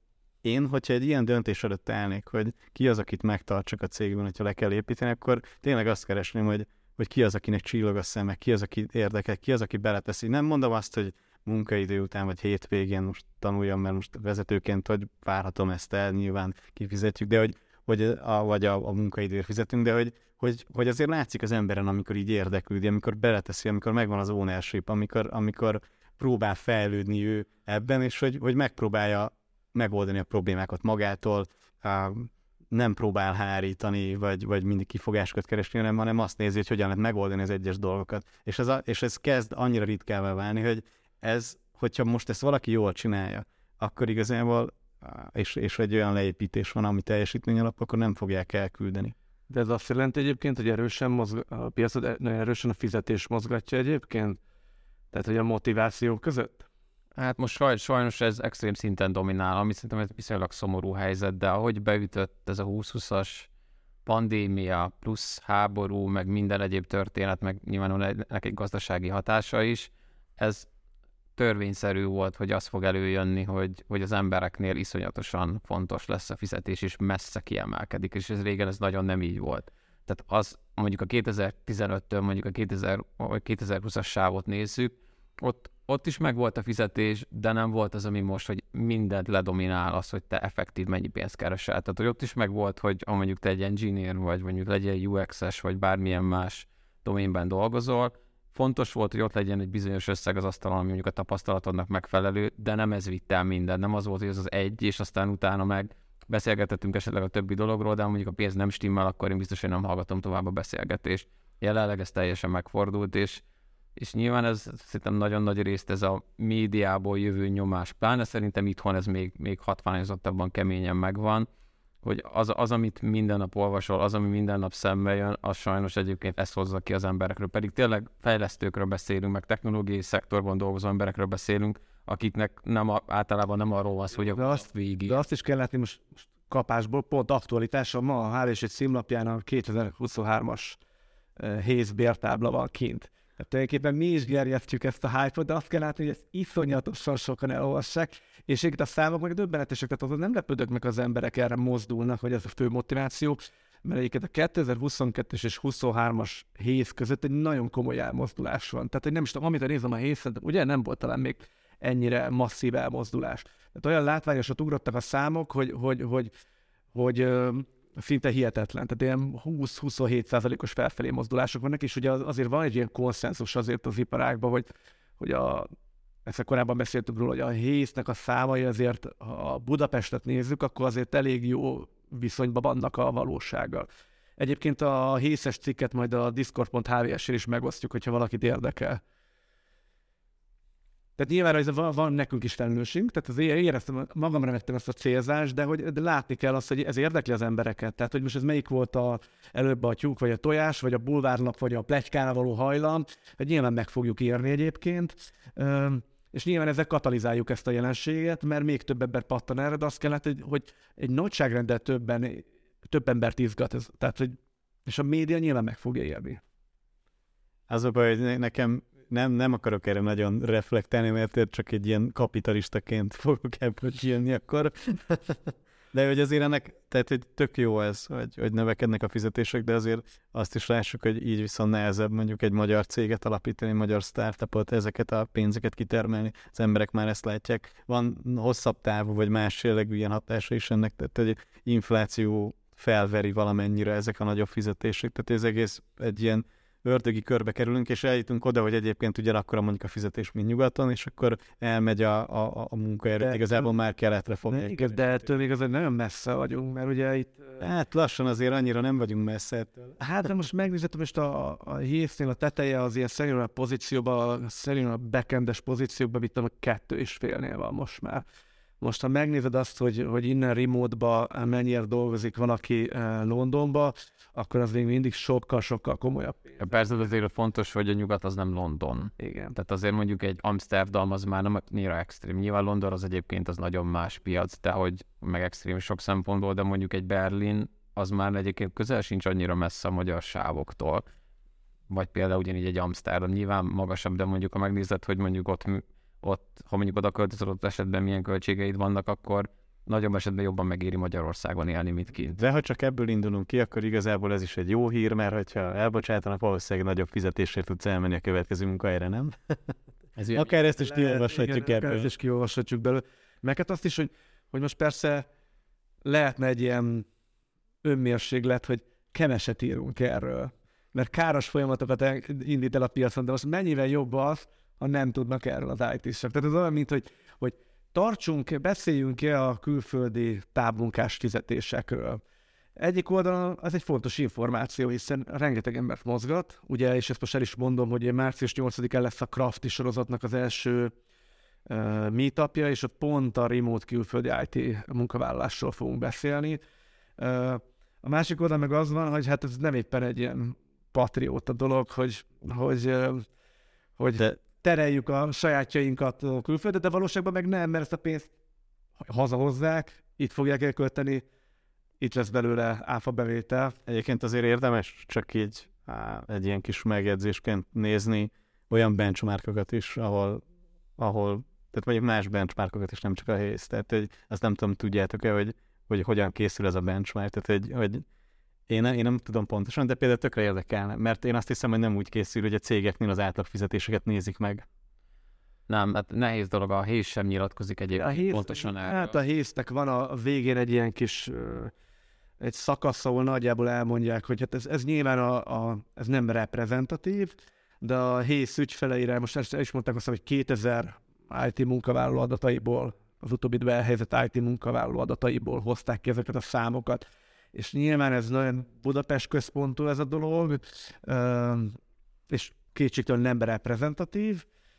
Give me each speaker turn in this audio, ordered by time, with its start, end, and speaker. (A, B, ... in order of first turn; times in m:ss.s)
0:00.4-0:49.1 A
0:49.5-0:54.4 B
0:55.1-0:56.6 B
0:57.2-1:03.5 C
1:04.0-1:10.7 C
1:11.4-1:53.4 C
1:54.0-2:01.4 C
2:02.0-2:15.2 C
2:14.2-2:20.8 B
2:21.4-2:46.3 B
2:46.9-2:54.7 B
2:55.2-2:55.7 B
2:56.2-3:09.0 B
3:11.2-3:36.4 B
3:37.7-4:15.0 A
4:13.2-4:13.6 B
4:14.5-4:17.6 B
4:17.6-4:19.9 A
4:20.0-4:28.2 B
4:28.8-4:36.6 B
4:36.6-4:51.0 C
4:39.2-4:39.5 B
4:51.9-5:02.4 C
5:02.3-5:09.6 A
5:10.3-5:12.1 A
5:10.8-5:15.2 B
5:16.0-5:17.0 B
5:17.8-5:32.2 B
5:32.8-5:40.9 B
5:41.7-5:46.6 B
5:47.2-5:53.2 B
5:54.0-5:58.3 B
5:59.0-6:01.2 B
6:02.0-6:03.7 B
6:03.8-6:10.4 A
6:11.0-6:18.0 A
6:18.7-6:24.6 A
6:25.7-6:29.2 C
6:28.0-6:31.7 B
6:32.4-6:51.8 B
6:52.3-6:54.4 B